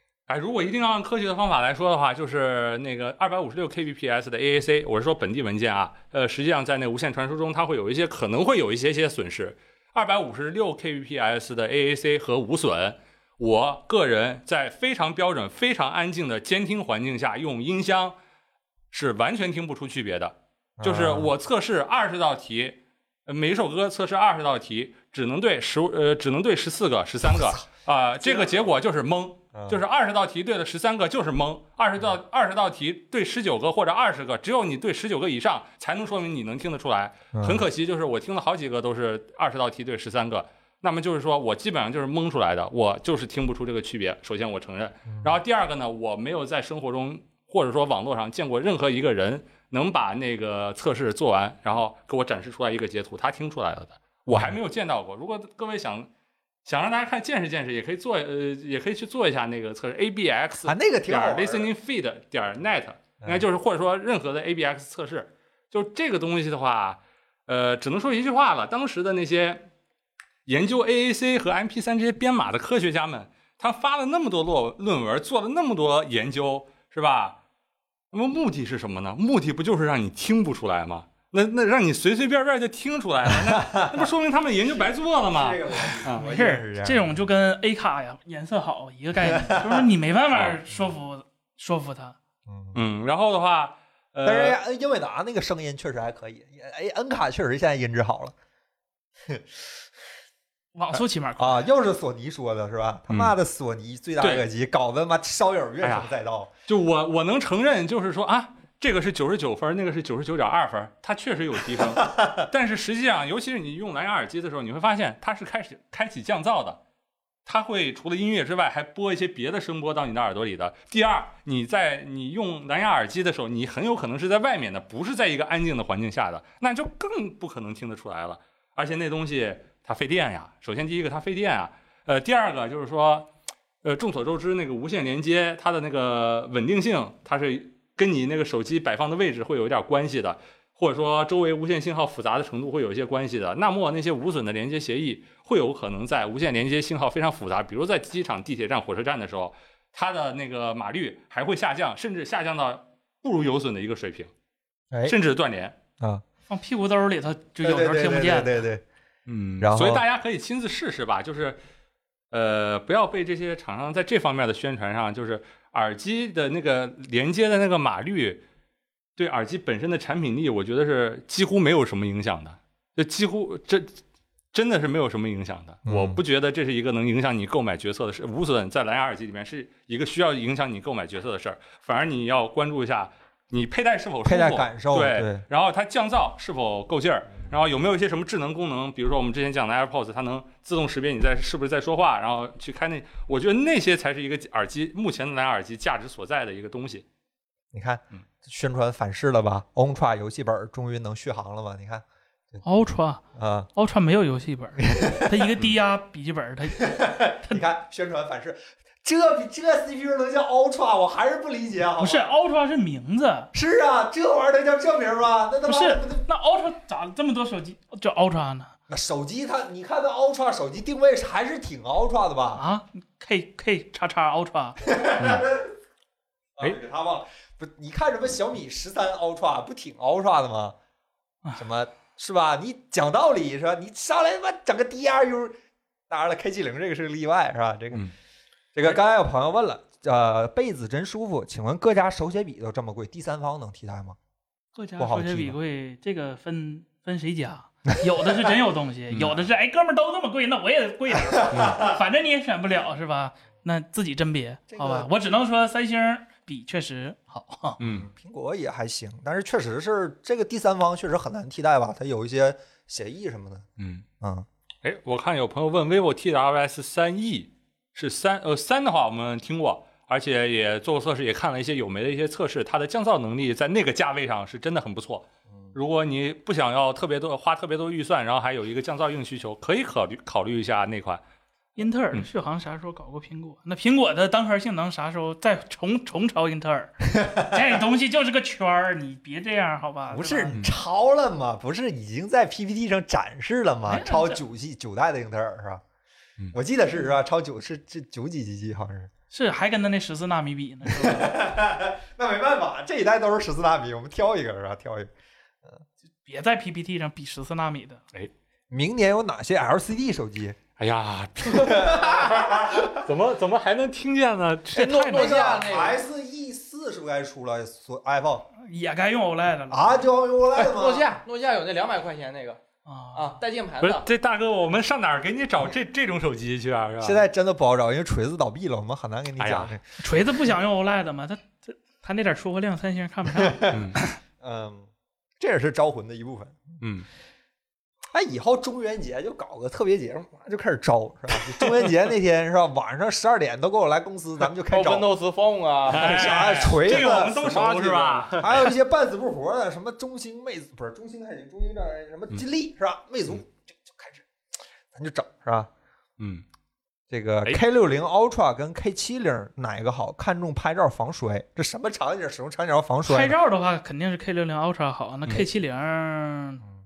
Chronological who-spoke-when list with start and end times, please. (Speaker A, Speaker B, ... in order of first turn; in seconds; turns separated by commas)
Speaker A: 0.3-18.2, Speaker A: 18.9-56.1, Speaker B: 20.8-21.3, Speaker B: 28.2-28.6, Speaker B: 29.5-29.8, Speaker B: 37.3-37.7, Speaker B: 54.3-54.6, Speaker A: 56.6-69.7, Speaker B: 60.6-61.7, Speaker A: 70.5-77.4, Speaker A: 78.1-86.2, Speaker B: 83.3-84.1, Speaker B: 84.8-87.1, Speaker C: 86.2-92.2, Speaker B: 89.2-89.9, Speaker A: 90.3-90.6, Speaker B: 92.5-92.8, Speaker A: 92.7-94.6, Speaker B: 94.2-98.3, Speaker B: 99.3-99.6, Speaker C: 100.8-101.6, Speaker B: 101.4-106.5, Speaker A: 103.1-103.3, Speaker A: 104.2-104.5, Speaker A: 105.8-106.1, Speaker A: 106.7-116.8, Speaker B: 112.0-112.4, Speaker A: 117.5-133.3, Speaker A: 133.8-154.3, Speaker A: 155.1-155.8, Speaker C: 156.5-158.6, Speaker B: 157.6-158.8, Speaker A: 159.3-161.6, Speaker B: 159.6-160.0, Speaker A: 162.3-168.4, Speaker A: 169.2-174.0, Speaker A: 174.5-197.1, Speaker B: 175.9-176.2, Speaker B: 184.2-185.4, Speaker B: 197.7-202.6, Speaker C: 202.6-203.2, Speaker B: 203.3-203.7, Speaker C: 203.8-207.6, Speaker B: 204.8-205.6, Speaker B: 206.8-212.3, Speaker C: 212.0-213.5, Speaker B: 213.5-216.2, Speaker C: 215.7-218.7, Speaker B: 218.9-222.6, Speaker C: 222.5-224.8, Speaker B: 224.8-225.8, Speaker B: 226.6-230.8, Speaker B: 231.6-235.6, Speaker B: 236.1-238.1, Speaker B: 238.8-244.2, Speaker C: 244.8-257.8, Speaker B: 245.0-245.6, Speaker A: 249.1-249.4, Speaker B: 251.5-251.9, Speaker B: 254.7-255.1, Speaker A: 257.8-258.1, Speaker B: 257.9-263.7, Speaker A: 263.8-264.1, Speaker B: 264.2-264.5, Speaker A: 264.8-281.2, Speaker C: 281.8-290.6, Speaker B: 287.2-287.6, Speaker B: 290.1-295.8, Speaker C: 293.9-294.4, Speaker B: 296.5-299.1, Speaker C: 299.3-301.4, Speaker B: 300.9-305.1, Speaker C: 306.2-308.0, Speaker B: 308.7-310.6, Speaker A: 310.8-315.3, Speaker B: 311.4-313.1, Speaker D: 314.7-316.0, Speaker B: 315.1-318.5, Speaker C: 318.6-320.1, Speaker B: 319.7-321.1, Speaker D: 320.5-322.6, Speaker C: 322.9-323.4, Speaker D: 323.1-324.1, Speaker A: 323.8-327.2, Speaker B: 327.0-329.8, Speaker A: 329.4-329.8, Speaker C: 330.0-334.1, Speaker B: 333.4-336.8, Speaker A: 333.7-334.0, Speaker A: 336.8-337.1, Speaker B: 338.1-345.1, Speaker D: 344.7-346.5, Speaker A: 345.9-348.7, Speaker B: 345.9-354.3, Speaker D: 348.0-348.4, Speaker B: 354.9-355.7, Speaker A: 356.2-356.4, Speaker B: 357.1-363.4, Speaker C: 363.1-366.6